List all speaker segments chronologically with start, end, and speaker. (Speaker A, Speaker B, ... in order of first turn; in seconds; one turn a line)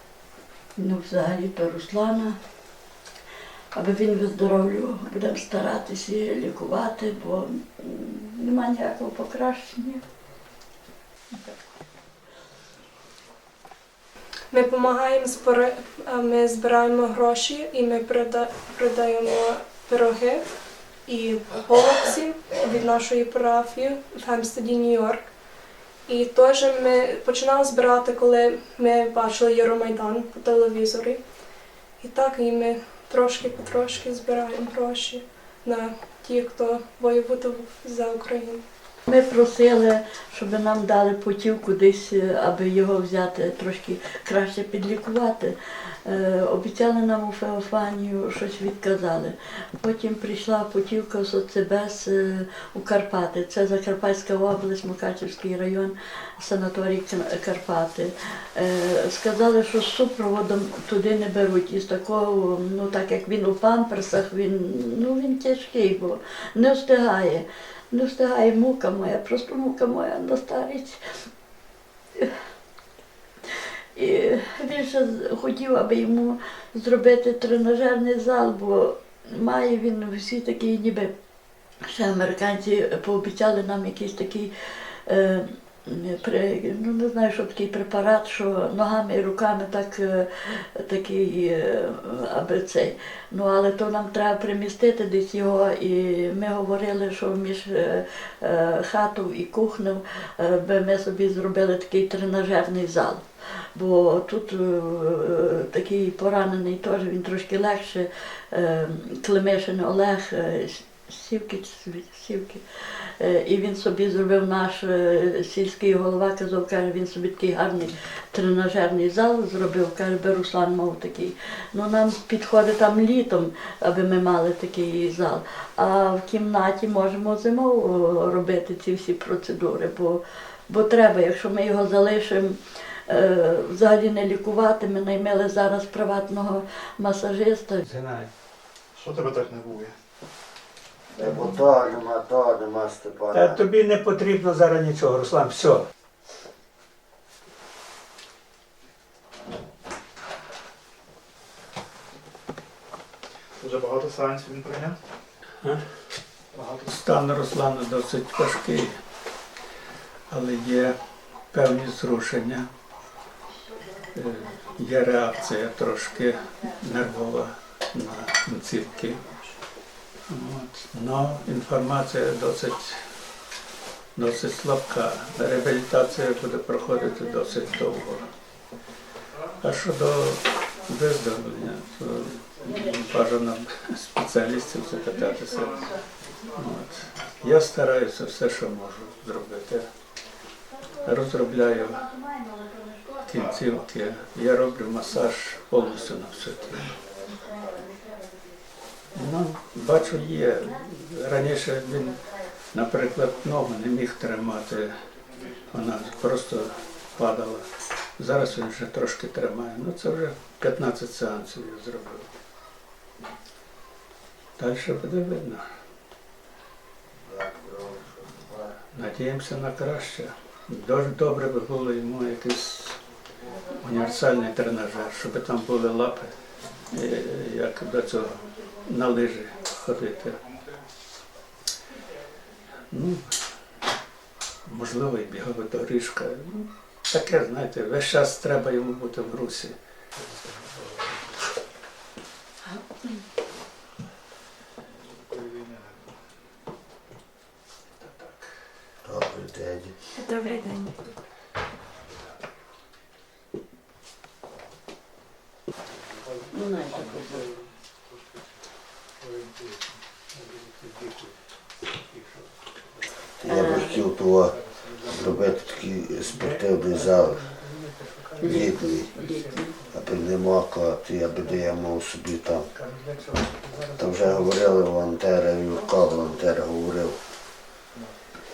Speaker A: 0.8-2.4
Speaker A: 3.7-10.0
Speaker B: 14.5-25.3
Speaker B: 26.1-31.3
Speaker B: 32.0-38.6
Speaker A: 39.1-71.0
Speaker A: 73.9-81.1
Speaker A: 81.9-137.8
Speaker C: 137.8-138.3
Speaker D: 138.9-140.0
Speaker E: 141.2-143.6
Speaker C: 143.3-145.9
Speaker D: 153.6-155.0
Speaker C: 155.6-156.0
Speaker D: 156.5-157.0
Speaker C: 156.9-159.0
Speaker C: 160.3-161.0
Speaker C: 161.5-162.7
Speaker C: 164.1-169.2
Speaker C: 170.3-173.0
Speaker C: 174.1-178.3
Speaker C: 179.6-185.8
Speaker C: 186.5-189.9
Speaker C: 191.0-192.1
Speaker A: 192.1-193.2
Speaker C: 193.2-196.9
Speaker A: 197.5-198.3
Speaker C: 199.1-204.9
Speaker C: 205.7-212.3
Speaker C: 214.6-215.6
Speaker E: 217.2-218.8
Speaker C: 218.9-223.0
Speaker C: 223.7-226.3
Speaker C: 226.9-230.4
Speaker C: 232.9-233.4
Speaker C: 234.7-239.7
Speaker D: 240.2-241.1
Speaker D: 245.3-246.1
Speaker C: 248.0-248.5
Speaker E: 249.0-249.9
Speaker A: 250.2-250.9
Speaker A: 256.5-257.4
Speaker C: 256.9-257.4
Speaker D: 259.2-260.0
Speaker C: 260.3-261.4
Speaker C: 262.1-262.5
Speaker E: 263.4-267.4
Speaker A: 263.5-264.0
Speaker D: 264.6-265.6
Speaker D: 266.2-266.9
Speaker C: 267.4-268.6
Speaker A: 268.4-269.7
Speaker E: 268.4-269.1
Speaker D: 269.2-269.6
Speaker E: 269.9-272.7
Speaker C: 272.8-274.0
Speaker D: 273.5-274.3
Speaker E: 274.0-277.2